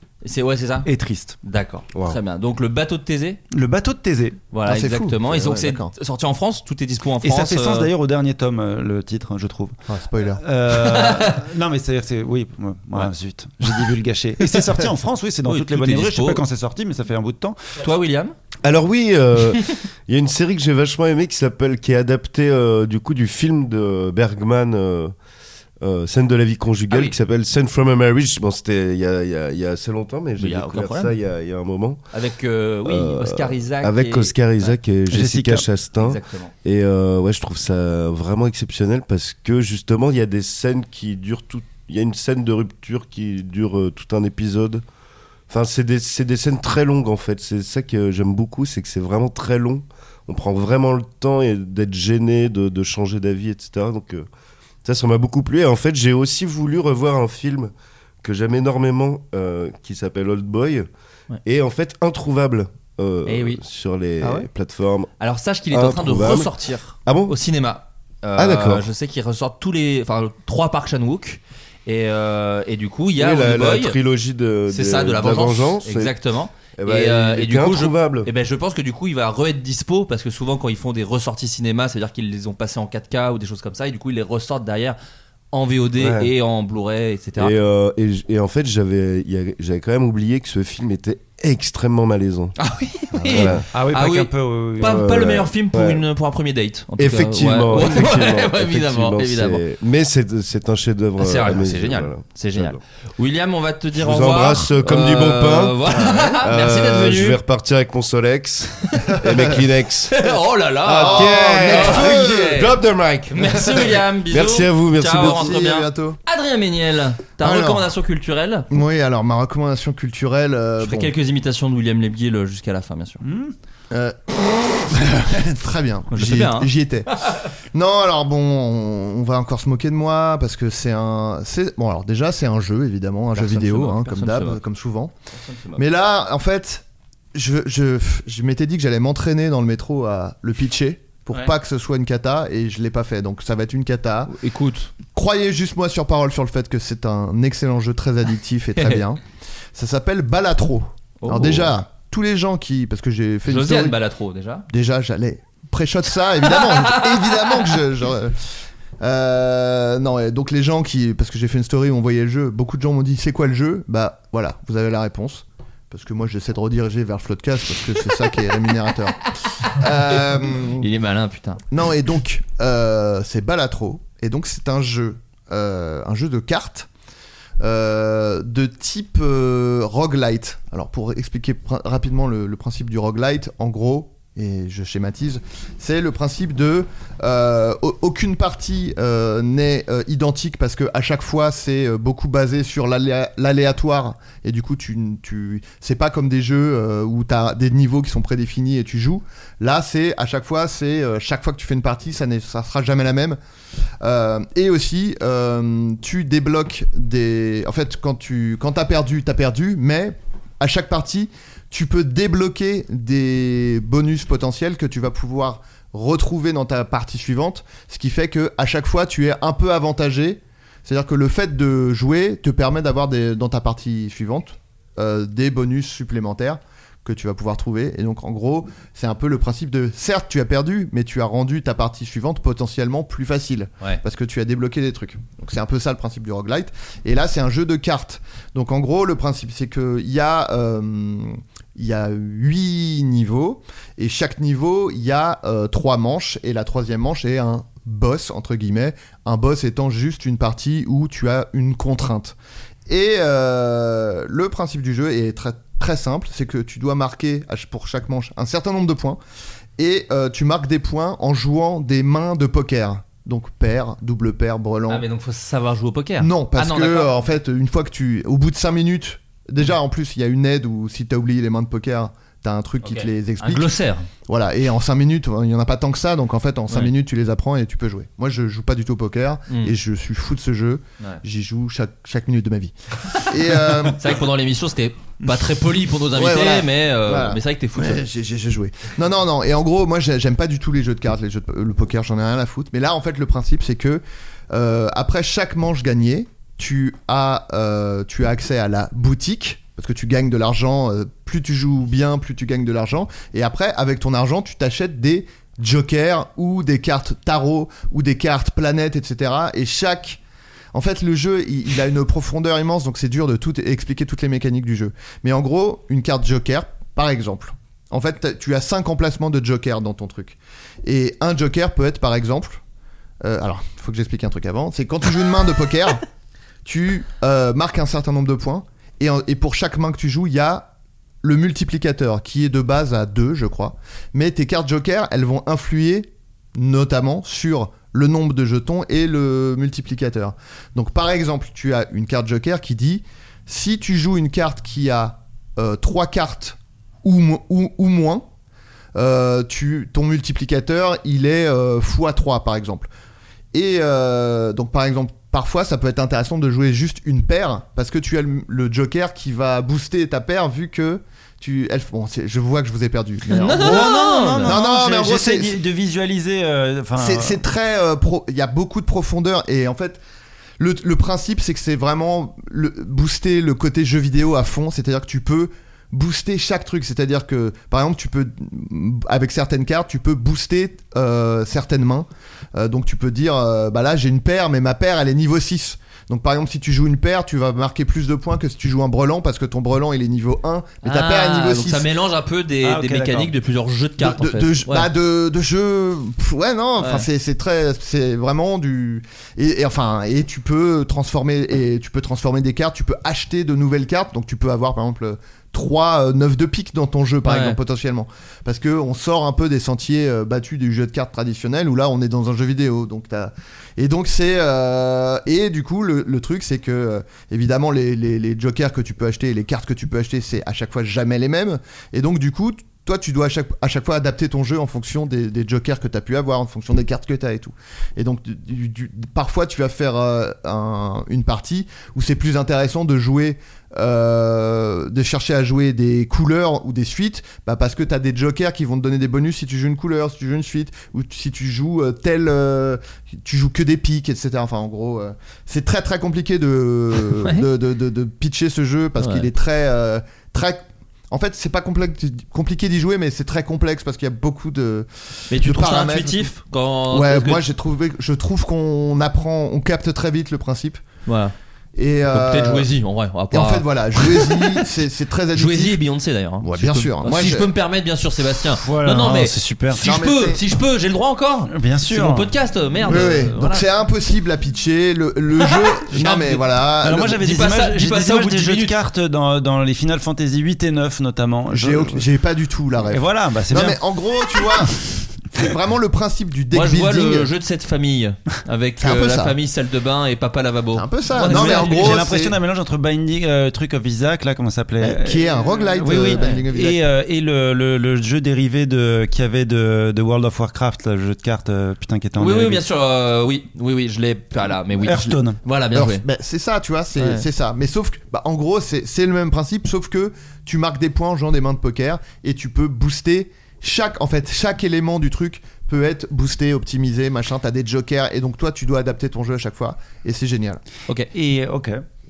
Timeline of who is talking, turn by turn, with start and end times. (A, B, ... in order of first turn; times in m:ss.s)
0:00.2-0:00.9 A
0:00.8-0:01.4 B
0:01.4-0:03.4 A
0:03.5-0:04.4 B
0:04.5-0:07.9 A
0:04.7-0:05.9 C
0:07.2-0:09.8 B
0:09.9-0:10.4 C
0:10.4-0:17.7 B
0:10.9-0:11.4 A
0:14.5-0:14.9 A
0:15.4-0:16.4 A
0:17.8-0:18.3 A
0:18.6-0:25.1 D
0:25.8-0:32.0 D
0:26.9-0:27.2 A
0:30.4-0:31.1 A
0:32.1-0:34.8 A
0:32.8-0:44.8 D
0:35.1-0:35.7 B
0:36.0-0:36.5 A
0:45.5-0:54.3 D
0:54.8-0:57.7 D
0:58.2-1:00.9 D
1:01.4-1:05.1 D
1:03.3-1:03.6 A
1:04.2-1:04.5 C
1:05.2-1:14.0 A
1:05.7-1:06.5 D
1:07.0-1:07.4 D
1:08.4-1:08.9 D
1:13.2-1:16.2 D
1:14.7-1:25.0 A
1:16.8-1:18.3 D
1:25.5-1:27.5 A
1:26.0-1:26.3 D
1:27.4-1:32.5 D
1:32.6-1:39.6 A
1:33.2-1:33.5 C
1:33.3-1:33.6 D
1:33.7-1:35.0 B
1:34.8-1:36.0 D
1:37.0-1:42.8 D
1:41.2-1:47.4 A
1:44.0-1:55.6 D
1:45.9-1:46.4 C
1:50.1-1:52.8 A
1:51.0-1:52.6 C
1:53.3-1:58.7 A
1:55.2-1:56.2 C
1:57.4-1:57.9 C
1:58.7-2:01.1 C
2:00.8-2:03.2 A
2:03.2-2:03.5 B
2:03.9-2:07.2 C
2:06.1-2:06.7 A
2:07.7-2:15.1 C
2:13.3-2:14.6 A
2:15.3-2:15.8 A
2:15.8-2:24.4 C
2:24.3-2:24.9 A
2:25.1-2:29.2 C
2:28.8-2:29.0 A
2:29.8-2:34.0 C
2:31.2-2:31.7 A
2:33.5-2:34.7 A
2:34.7-2:38.4 C
2:36.5-2:37.7 A
2:39.0-2:50.9 C
2:50.8-2:51.6 A
2:51.7-2:56.9 C
2:57.6-3:23.4 C
3:24.0-4:12.4 C
4:12.9-4:19.2 C
4:19.8-4:25.0 C
4:24.9-4:27.1 A
4:26.2-4:33.7 C
4:32.8-4:34.1 A
4:34.3-4:44.1 C
4:43.8-4:48.0 A
4:46.1-5:10.2 C
5:10.7-5:22.6 C
5:23.2-5:26.0 C
5:26.6-5:30.7 C
5:31.2-5:48.3 C
5:49.0-5:52.9 C
5:53.5-6:05.6 C
6:03.3-6:04.6 A
6:03.6-6:07.4 B
6:07.0-6:10.0 C
6:10.6-6:31.8 C
6:30.8-6:34.9 A
6:32.6-6:33.3 B
6:34.0-7:36.4 C
6:36.8-6:37.1 A
6:47.2-6:47.6 A
7:27.2-7:27.5 A
7:29.0-7:29.3 A
7:35.3-7:37.4 A
7:36.9-7:40.8 C
7:41.1-7:41.3 A
7:41.8-7:42.7 C
7:42.1-7:44.7 A
7:43.3-7:45.8 C
7:45.3-7:53.6 A
7:46.4-7:47.5 C
7:48.6-7:49.8 B
7:49.8-7:50.4 C
7:51.5-7:52.3 B
7:52.8-7:57.2 C
7:55.4-7:58.7 A
7:56.8-8:02.1 B
8:01.5-8:07.3 C
8:02.8-8:03.8 B
8:06.5-8:12.0 A
8:08.8-8:09.4 C
8:10.7-8:12.4 C
8:11.1-8:22.6 B
8:14.8-8:16.8 C
8:16.2-8:16.4 A
8:22.2-8:26.0 A
8:24.8-8:25.4 B
8:25.7-8:40.6 C
8:27.0-8:27.3 A
8:41.1-8:41.8 B